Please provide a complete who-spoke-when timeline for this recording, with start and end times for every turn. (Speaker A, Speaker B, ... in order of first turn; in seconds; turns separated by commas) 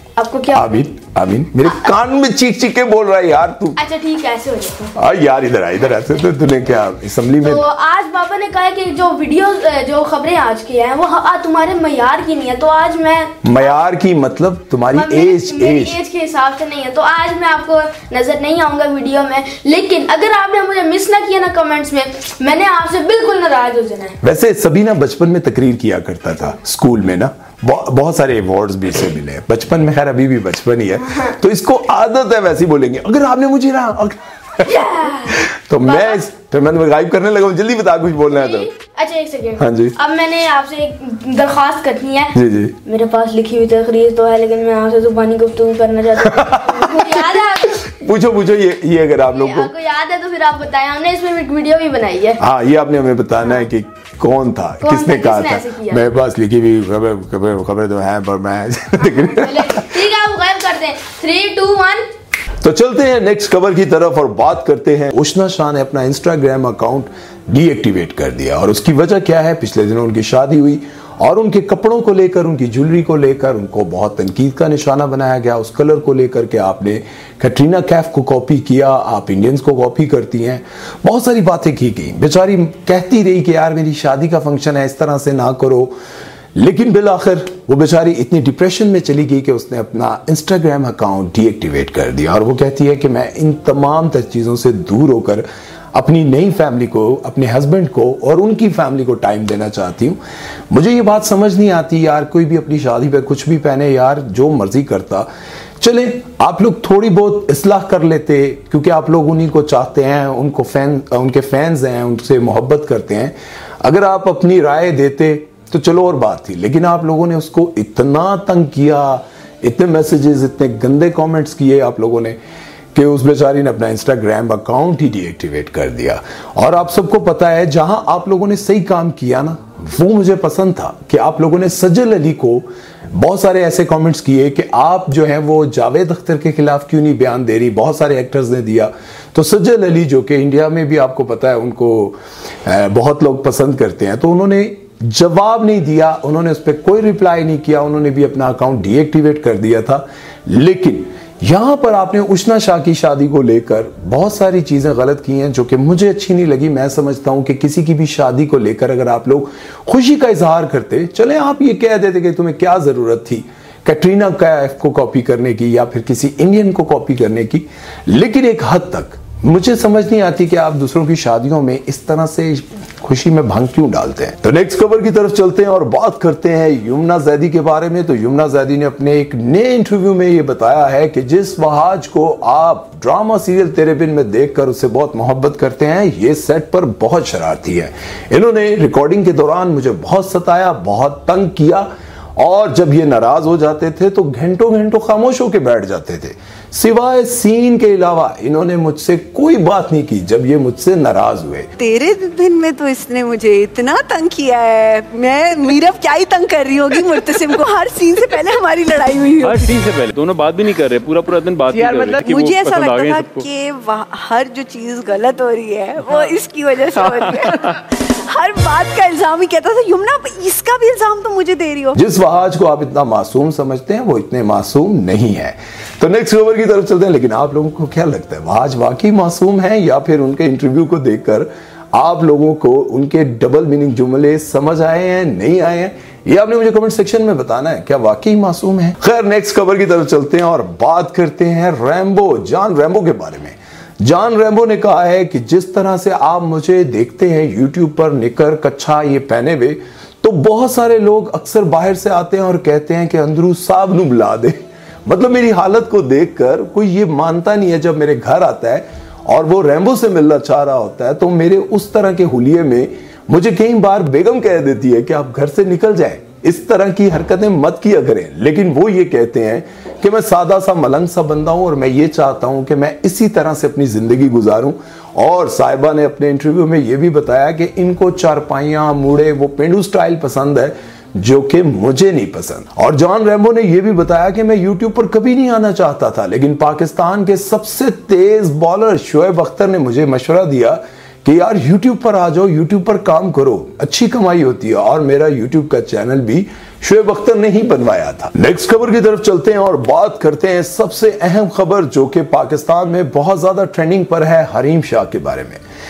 Speaker A: 0.2-0.9, Speaker B: 0.5-3.8, Speaker A: 1.6-1.9, Speaker A: 3.8-4.9, Speaker B: 5.0-7.6, Speaker A: 7.4-13.8, Speaker B: 13.4-16.0, Speaker A: 14.9-24.2, Speaker B: 24.2-38.7, Speaker A: 34.6-36.2, Speaker A: 38.3-47.8, Speaker B: 39.6-40.0, Speaker B: 42.3-42.8, Speaker B: 46.2-49.7, Speaker A: 49.3-52.4, Speaker B: 52.4-60.0, Speaker A: 54.8-56.0, Speaker A: 59.0-62.0, Speaker B: 62.6-85.9, Speaker B: 86.6-100.2, Speaker B: 100.7-105.3, Speaker B: 105.8-122.4, Speaker B: 122.9-191.9, Speaker B: 192.4-201.7, Speaker C: 201.8-209.7, Speaker D: 209.4-213.5, Speaker C: 211.7-222.0, Speaker B: 221.9-305.6